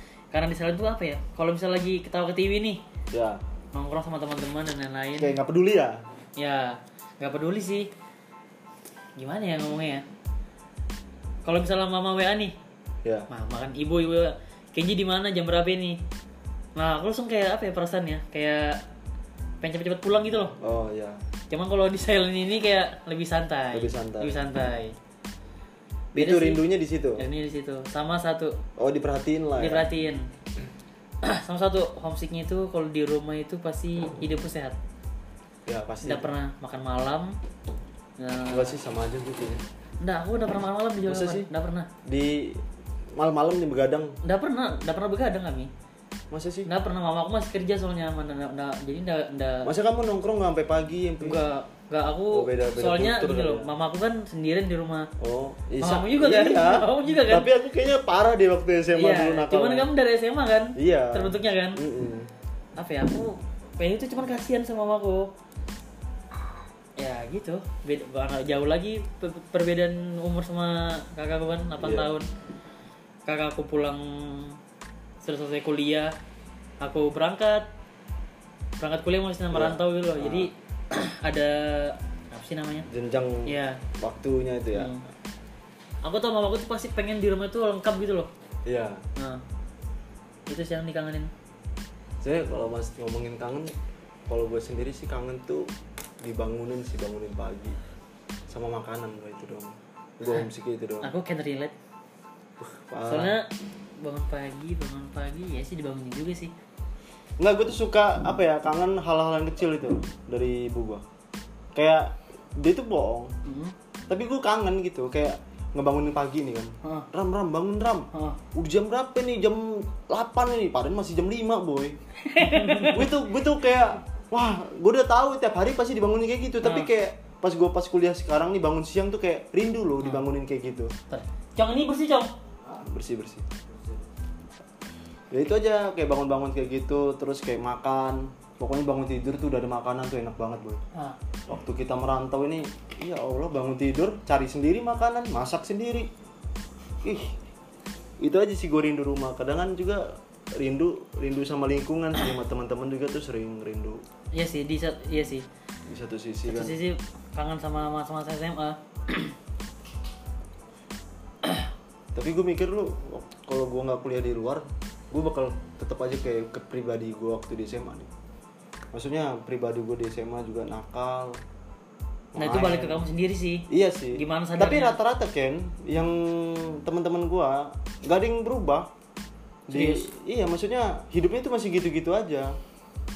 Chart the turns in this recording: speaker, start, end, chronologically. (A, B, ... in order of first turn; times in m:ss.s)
0:00.3-0:02.8 A
0:03.1-0:03.4 B
0:03.7-0:05.4 A
0:05.2-0:06.0 B
0:06.4-0:07.9 A
0:09.2-0:10.0 A
0:11.4-0:12.5 A
0:13.3-0:16.0 A
0:16.8-0:18.8 A
0:19.6-0:20.6 A
0:20.6-0:21.2 B
0:21.5-0:25.0 A
0:23.7-0:24.4 B
0:26.1-0:27.2 B
0:26.2-0:26.6 A
0:27.2-0:28.6 A
0:28.8-0:29.9 B
0:29.6-0:30.3 A
0:31.2-0:34.8 A
0:35.6-0:36.3 B
0:36.0-0:37.4 A
0:38.2-0:38.8 A
0:38.4-0:39.6 B
0:40.0-0:41.9 A
0:41.0-0:41.5 B
0:42.1-0:42.6 B
0:43.1-0:44.2 B
0:44.2-0:45.7 A
0:46.3-0:46.7 B
0:46.6-0:49.7 A
0:49.6-0:51.4 B
0:51.2-0:55.1 A
0:52.3-0:53.7 B
0:55.2-0:59.9 B
0:55.8-0:57.5 A
0:58.9-1:01.8 A
1:00.8-1:02.3 B
1:02.8-1:05.3 A
1:07.0-1:12.3 A
1:11.8-1:12.1 B
1:13.2-1:14.6 A
1:15.2-1:16.1 A
1:16.8-1:17.7 A
1:18.8-1:22.9 A
1:19.5-1:20.5 B
1:22.9-1:24.9 B
1:23.4-1:23.8 A
1:24.7-1:25.0 A
1:26.0-1:28.3 A
1:28.6-1:29.0 B
1:29.2-1:29.4 A
1:30.5-1:31.3 A
1:32.2-1:33.7 B
1:34.3-1:35.7 B
1:36.2-1:37.8 B
1:38.5-1:41.1 B
1:41.0-1:41.7 A
1:42.6-1:43.4 B
1:43.1-1:43.5 A
1:44.0-1:46.5 A
1:47.4-1:51.0 B
1:51.7-1:53.3 B
1:53.4-1:53.7 A
1:54.1-2:10.9 B
1:58.1-1:58.4 A
2:02.2-2:03.1 A
2:06.6-2:06.9 A
2:11.1-2:12.3 A
2:12.6-2:14.0 B
2:15.3-2:20.8 B
2:21.5-2:26.1 B
2:27.0-2:27.4 B
2:28.2-2:34.0 B
2:34.3-2:35.4 A
2:35.9-2:36.8 B
2:36.4-2:39.3 A
2:41.4-2:41.7 A
2:42.1-2:48.1 B
2:48.9-2:51.4 B
2:52.3-2:53.0 B
2:52.4-2:55.0 A
2:53.7-2:58.9 B
2:59.7-3:02.6 B
2:59.7-3:00.1 A